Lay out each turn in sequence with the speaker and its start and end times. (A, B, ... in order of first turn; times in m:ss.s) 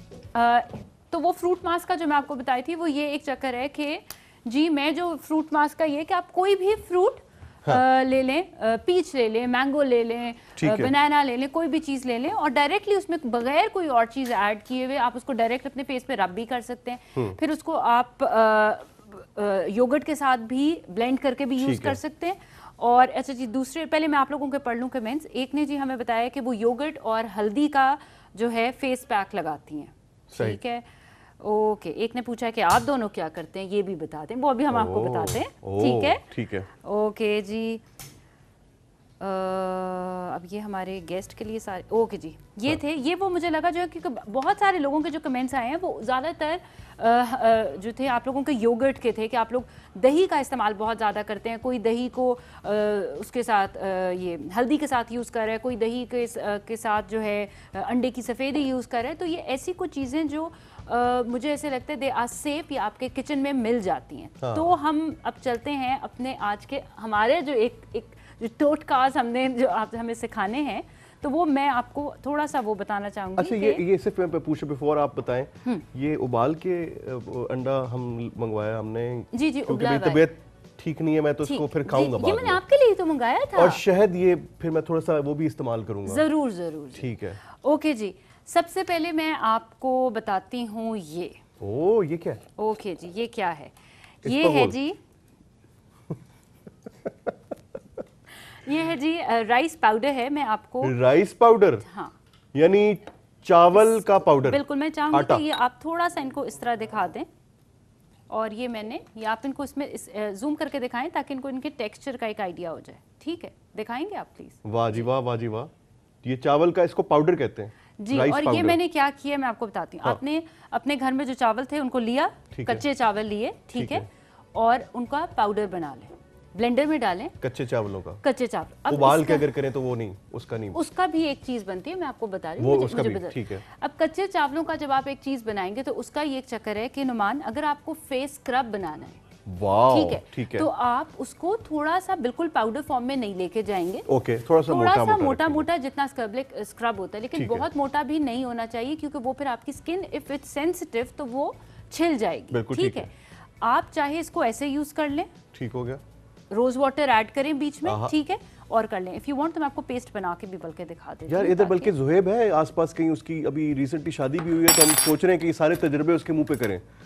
0:00.4-0:30.8 A
0:10.6-0:10.9 B
0:21.6-0:22.0 B
0:30.3-0:30.6 B
0:31.4-0:37.8 A
0:34.7-0:36.7 B
0:39.2-1:13.8 A
1:04.4-1:04.7 B
1:13.4-1:22.6 B
1:19.3-1:20.3 A
1:21.4-1:23.8 A
1:23.6-1:26.3 B
1:26.1-1:31.4 A
1:26.9-1:27.4 B
1:31.6-1:32.4 B
1:32.6-1:35.0 A
1:34.2-1:34.8 B
1:37.0-1:37.4 B
1:38.5-1:41.0 A
1:40.8-1:41.8 B
1:41.9-1:42.1 A
1:42.5-1:45.4 B
1:43.9-1:47.3 A
1:48.3-1:55.1 A
1:54.6-1:55.7 B
1:56.2-1:58.8 B
1:58.0-2:07.4 A
2:02.5-2:02.9 B
2:03.7-2:04.1 B
2:07.4-2:08.2 B
2:08.2-2:09.5 A
2:08.9-2:10.8 B
2:10.7-2:19.2 A
2:12.6-2:13.6 B
2:19.5-2:20.7 B
2:19.9-2:24.1 A
2:24.1-2:25.7 B
2:24.7-2:33.1 A
2:27.4-2:27.7 B
2:32.5-2:33.1 B
2:33.6-2:35.3 A
2:35.5-2:36.0 B
2:36.5-2:41.9 A
2:37.8-2:38.1 B
2:41.3-2:46.8 B